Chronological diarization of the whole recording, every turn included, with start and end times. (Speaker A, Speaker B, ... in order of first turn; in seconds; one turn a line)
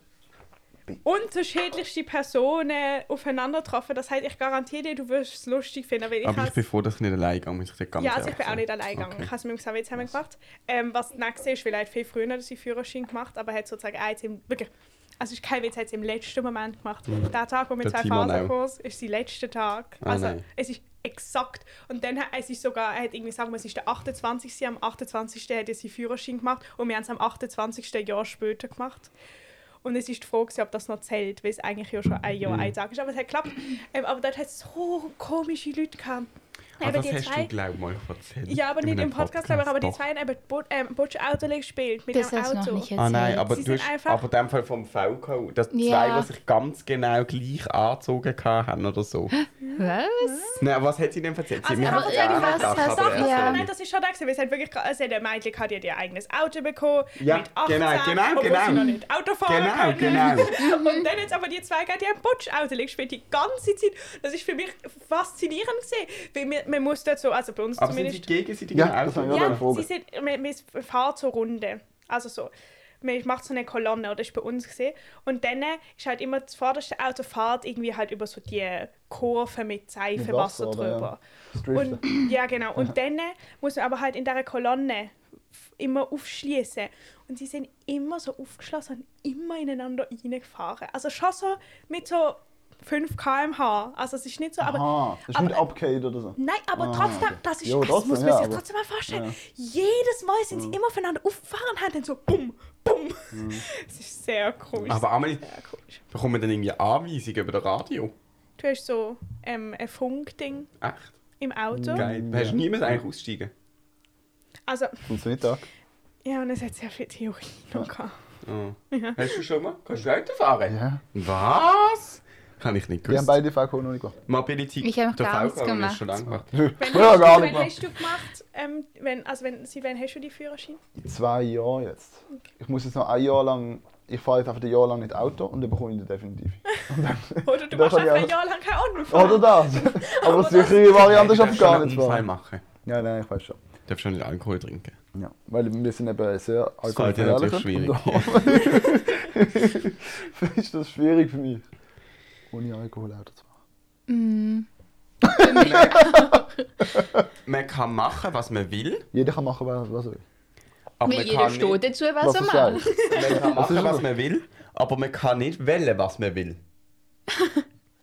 Speaker A: 1.0-6.6
Speaker B: 6.2-9.3
Speaker A: 8.0-29.1
Speaker B: 17.1-18.5
Speaker B: 20.0-20.4
Speaker A: 29.8-36.3
Speaker B: 32.4-32.7
Speaker A: 36.8-37.5
Speaker B: 36.8-40.0
Speaker A: 38.5-42.9
Speaker C: 42.1-43.5
Speaker B: 43.0-49.3
Speaker A: 43.5-44.2
Speaker C: 45.7-46.3
Speaker C: 49.4-50.6
Speaker A: 49.6-50.6
Speaker B: 50.6-53.7
Speaker A: 51.6-68.3
Speaker C: 51.8-53.6
Speaker B: 57.2-58.9
Speaker B: 59.5-60.5
Speaker C: 60.0-61.1
Speaker B: 67.8-69.6
Speaker D: 68.7-69.9
Speaker A: 69.3-81.2
Speaker D: 80.2-82.1
Speaker A: 81.7-85.2
Speaker A: 85.8-95.7
Speaker D: 94.6-99.3
Speaker A: 96.3-106.0
Speaker D: 100.5-100.8
Speaker D: 103.3-103.6
Speaker B: 104.8-105.5
Speaker B: 106.1-108.1
Speaker A: 108.6-110.7
Speaker B: 110.8-111.1
Speaker A: 111.4-112.0
Speaker D: 111.7-112.6
Speaker B: 111.9-113.5
Speaker A: 114.7-115.0
Speaker D: 115.1-115.6
Speaker A: 116.2-118.1
Speaker B: 118.4-123.4
Speaker A: 118.9-119.2
Speaker D: 120.7-121.0
Speaker D: 123.1-124.2
Speaker B: 124.3-126.5
Speaker C: 124.8-126.0
Speaker D: 126.5-127.8
Speaker A: 126.8-130.8
Speaker D: 131.0-138.3
Speaker A: 137.4-141.2
Speaker D: 139.1-142.2
Speaker B: 140.9-142.6
Speaker D: 142.8-143.6
Speaker B: 143.9-144.9
Speaker D: 145.1-151.6
Speaker B: 146.8-148.9
Speaker D: 152.5-153.4
Speaker C: 154.1-154.7
Speaker C: 155.2-156.9
Speaker D: 155.4-156.2
Speaker B: 155.5-156.0
Speaker B: 157.4-159.1
Speaker D: 159.1-160.2
Speaker B: 161.0-161.8
Speaker C: 161.0-162.9
Speaker D: 162.2-164.0
Speaker A: 162.9-163.3
Speaker B: 163.1-166.6
Speaker C: 167.4-167.6